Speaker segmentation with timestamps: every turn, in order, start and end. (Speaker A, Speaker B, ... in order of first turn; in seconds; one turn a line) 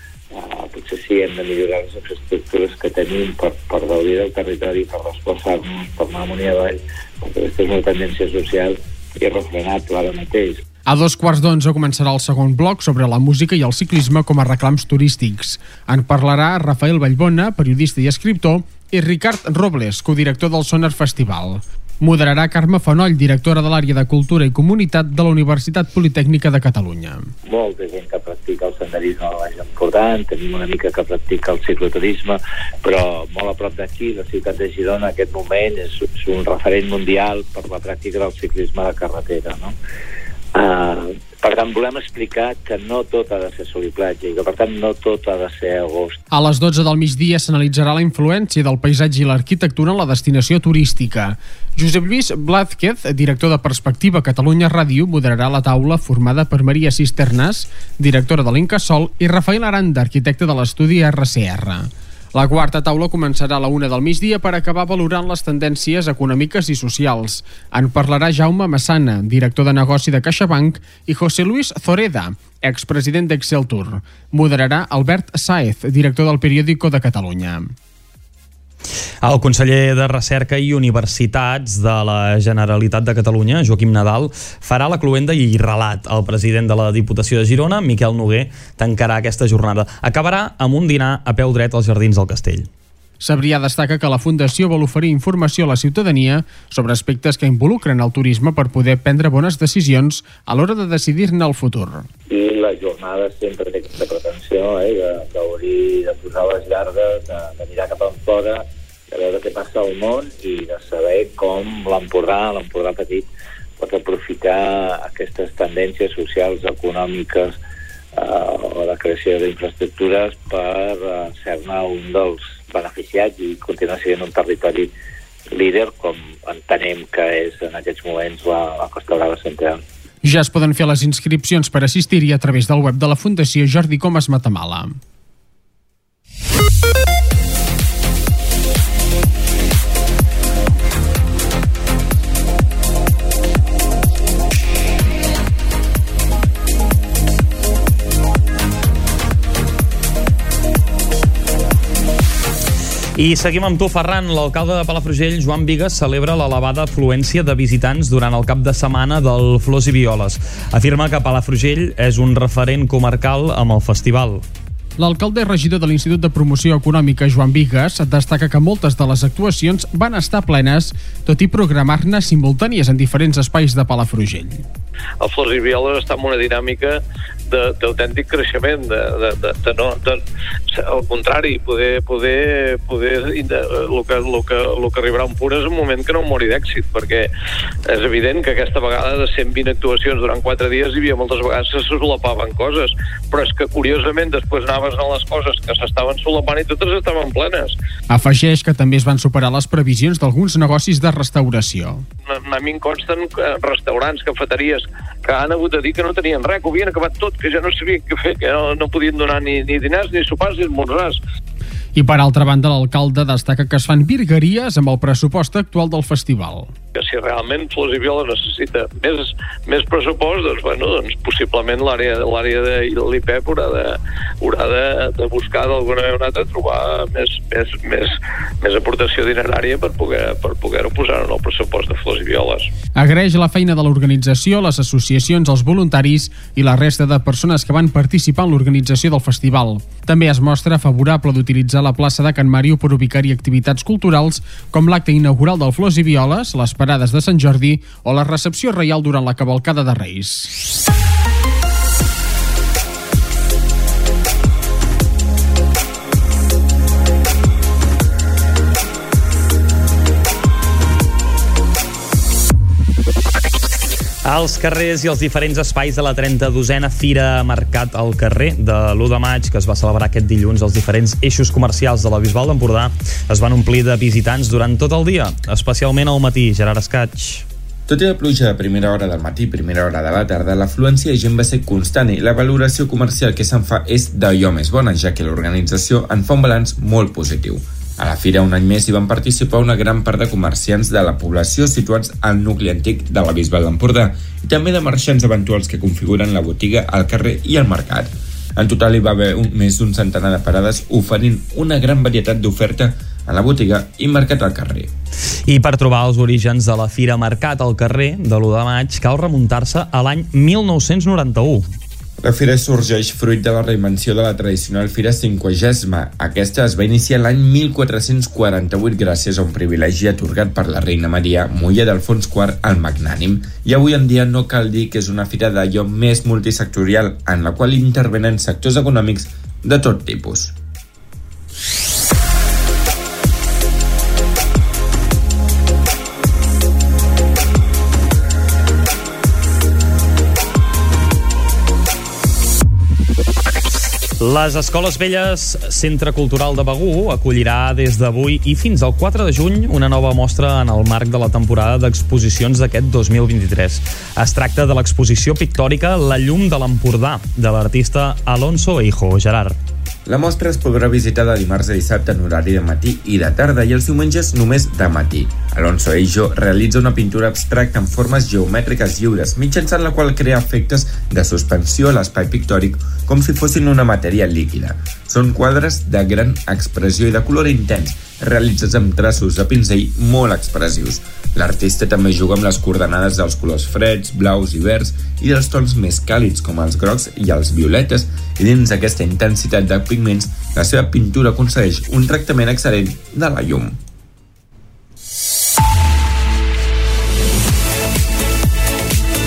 Speaker A: 0.3-10.6
Speaker B: 10.9-27.3
Speaker A: 27.4-39.7
Speaker A: 40.5-46.2
Speaker B: 46.3-77.7
Speaker C: 79.2-92.7
Speaker B: 93.2-102.1
Speaker A: 102.3-117.5
Speaker A: 118.2-124.9
Speaker A: 125.5-129.8
Speaker B: 130.2-135.0
Speaker C: 153.2-164.4
Speaker B: 165.0-174.6
Speaker D: 175.2-180.2
Speaker D: 180.7-187.3
Speaker D: 187.9-197.8
Speaker B: 198.1-202.0
Speaker D: 202.2-211.2
Speaker B: 211.9-216.7
Speaker D: 216.9-232.7
Speaker B: 233.0-250.5
Speaker C: 264.2-277.4
Speaker E: 277.9-304.9
Speaker C: 305.5-311.7
Speaker E: 312.2-330.5
Speaker C: 344.2-359.6
Speaker E: 360.1-393.8